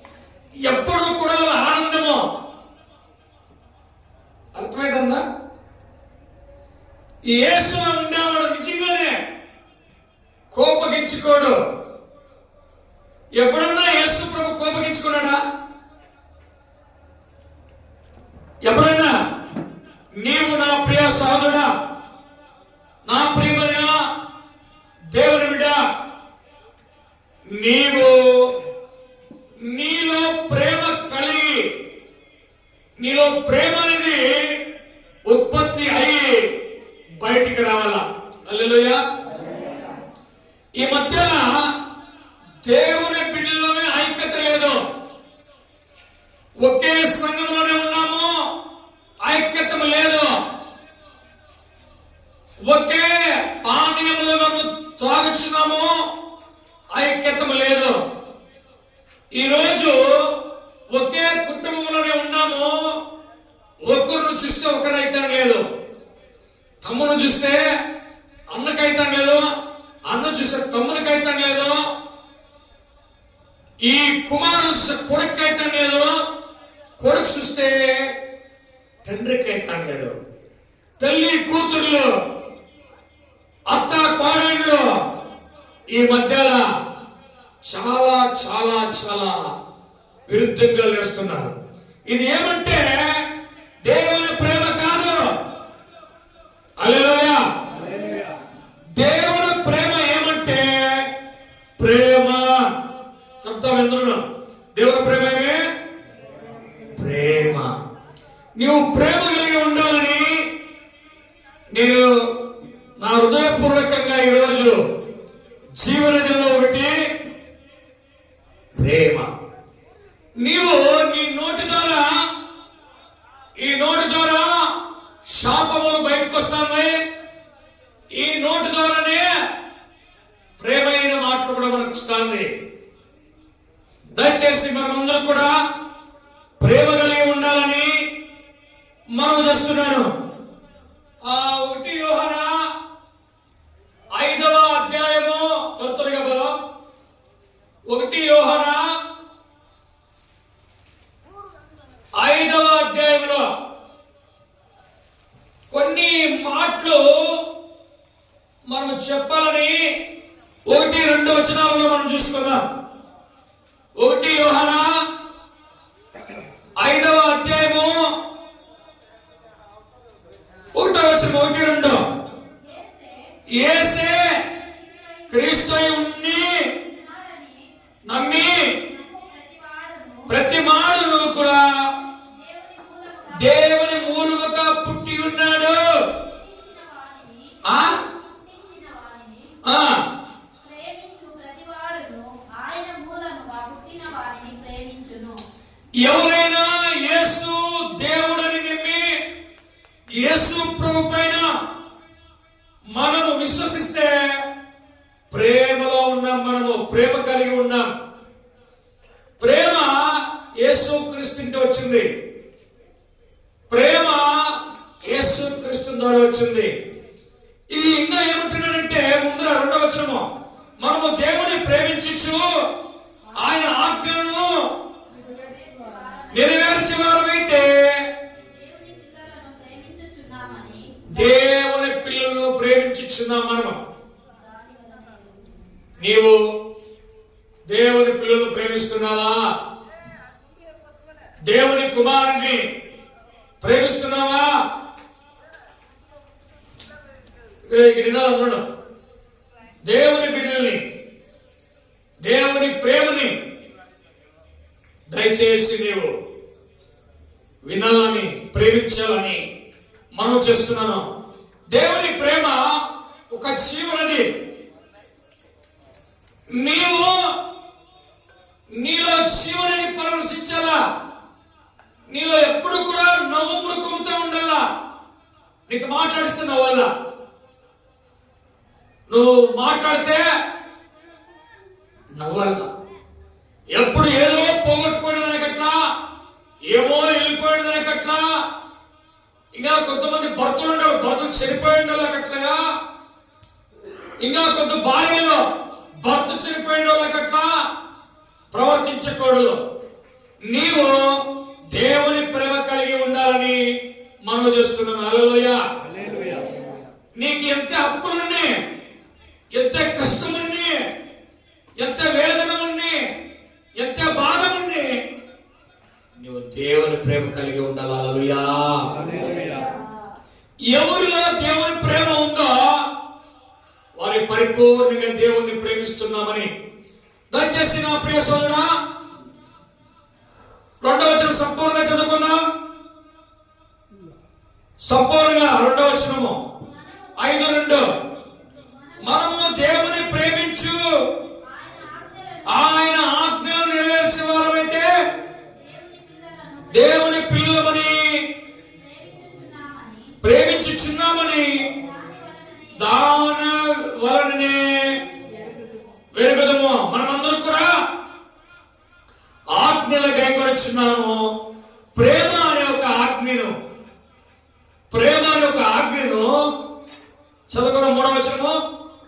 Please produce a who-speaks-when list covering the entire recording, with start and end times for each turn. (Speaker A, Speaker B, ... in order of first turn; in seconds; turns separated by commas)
Speaker A: 0.6-2.2, Speaker A: 4.5-5.2, Speaker A: 7.3-9.1, Speaker A: 10.5-11.6, Speaker A: 13.4-15.4, Speaker A: 18.6-19.1, Speaker A: 20.2-21.7, Speaker A: 23.1-24.0, Speaker A: 25.1-25.8, Speaker A: 27.5-28.5, Speaker A: 29.6-31.7, Speaker A: 33.0-34.5, Speaker A: 35.3-36.5, Speaker A: 37.2-39.0, Speaker A: 40.8-41.7, Speaker A: 42.6-44.8, Speaker A: 46.6-48.4, Speaker A: 49.2-50.3, Speaker A: 52.7-55.9, Speaker A: 56.9-58.0, Speaker A: 59.4-60.4, Speaker A: 60.9-62.8, Speaker A: 63.8-65.6, Speaker A: 66.8-67.7, Speaker A: 68.5-69.5, Speaker A: 70.1-71.8, Speaker A: 73.8-76.1, Speaker A: 77.0-78.0, Speaker A: 79.0-80.2, Speaker A: 81.0-82.1, Speaker A: 83.7-84.9, Speaker A: 85.9-86.7, Speaker A: 87.7-89.5, Speaker A: 90.3-91.5, Speaker A: 92.1-93.2, Speaker A: 93.8-95.2, Speaker A: 96.8-97.4, Speaker A: 99.0-101.1, Speaker A: 101.8-102.6, Speaker A: 103.4-104.2, Speaker A: 104.7-105.6, Speaker A: 107.0-107.8, Speaker A: 108.6-110.4, Speaker A: 111.7-112.1, Speaker A: 113.0-114.8, Speaker A: 115.8-117.0, Speaker A: 118.8-119.3, Speaker A: 120.4-122.2, Speaker A: 123.6-124.7, Speaker A: 125.3-127.0, Speaker A: 128.2-129.2, Speaker A: 130.6-132.5, Speaker A: 134.2-135.6, Speaker A: 136.6-137.9, Speaker A: 139.2-140.1, Speaker A: 141.3-142.5, Speaker A: 144.1-146.5, Speaker A: 147.9-148.8, Speaker A: 152.2-153.4, Speaker A: 155.7-157.1, Speaker A: 158.7-159.8, Speaker A: 160.7-162.6, Speaker A: 164.0-164.9, Speaker A: 166.8-168.0, Speaker A: 170.8-172.0, Speaker B: 172.6-173.4, Speaker A: 173.5-174.4, Speaker A: 175.3-176.6, Speaker B: 176.9-177.7, Speaker A: 178.1-178.8, Speaker B: 178.9-180.3, Speaker A: 180.3-181.7, Speaker B: 182.3-183.9, Speaker A: 183.3-186.1, Speaker B: 186.2-187.6, Speaker A: 187.6-188.0, Speaker B: 188.1-189.6, Speaker A: 189.6-190.0, Speaker B: 190.6-195.4, Speaker A: 196.0-199.2, Speaker A: 200.1-201.5, Speaker A: 202.9-204.4, Speaker A: 205.3-207.9, Speaker A: 209.4-212.1, Speaker A: 213.7-214.4, Speaker A: 215.1-216.7, Speaker A: 217.7-220.2, Speaker A: 220.8-222.5, Speaker A: 223.4-224.6, Speaker B: 225.2-226.6, Speaker A: 226.3-228.0, Speaker B: 228.5-231.1, Speaker A: 231.1-233.8, Speaker B: 234.3-235.6, Speaker A: 236.0-236.4, Speaker A: 237.7-239.4, Speaker A: 241.4-242.6, Speaker A: 243.6-244.5, Speaker A: 247.7-248.6, Speaker A: 249.8-250.8, Speaker A: 252.2-253.3, Speaker A: 255.1-256.1, Speaker A: 257.6-259.4, Speaker A: 260.1-261.1, Speaker A: 261.7-262.6, Speaker A: 263.3-264.2, Speaker A: 266.5-267.3, Speaker A: 268.8-270.8, Speaker A: 272.1-274.6, Speaker A: 275.7-276.9, Speaker A: 279.1-280.2, Speaker A: 282.2-282.7, Speaker A: 283.7-285.8, Speaker A: 286.7-288.2, Speaker A: 289.6-292.6, Speaker A: 294.2-295.4, Speaker A: 296.0-297.5, Speaker A: 298.5-299.6, Speaker A: 300.5-301.1, Speaker A: 301.7-303.6, Speaker A: 304.3-305.6, Speaker A: 307.2-308.5, Speaker A: 309.5-310.8, Speaker A: 311.8-313.0, Speaker A: 313.8-314.9, Speaker A: 316.2-318.9, Speaker B: 319.2-319.7, Speaker A: 320.7-322.8, Speaker A: 323.9-326.5, Speaker A: 327.3-328.7, Speaker A: 330.8-332.4, Speaker A: 334.8-336.4, Speaker B: 336.8-337.3, Speaker A: 337.2-337.8, Speaker A: 339.0-340.8, Speaker B: 341.5-342.6, Speaker A: 342.5-344.9, Speaker B: 345.5-347.1, Speaker A: 346.7-348.2, Speaker B: 348.7-350.2, Speaker A: 350.2-351.7, Speaker B: 351.8-352.9, Speaker A: 352.8-354.9, Speaker A: 356.1-357.7, Speaker A: 359.5-361.2, Speaker A: 361.9-363.5, Speaker A: 364.9-366.3, Speaker A: 367.5-368.6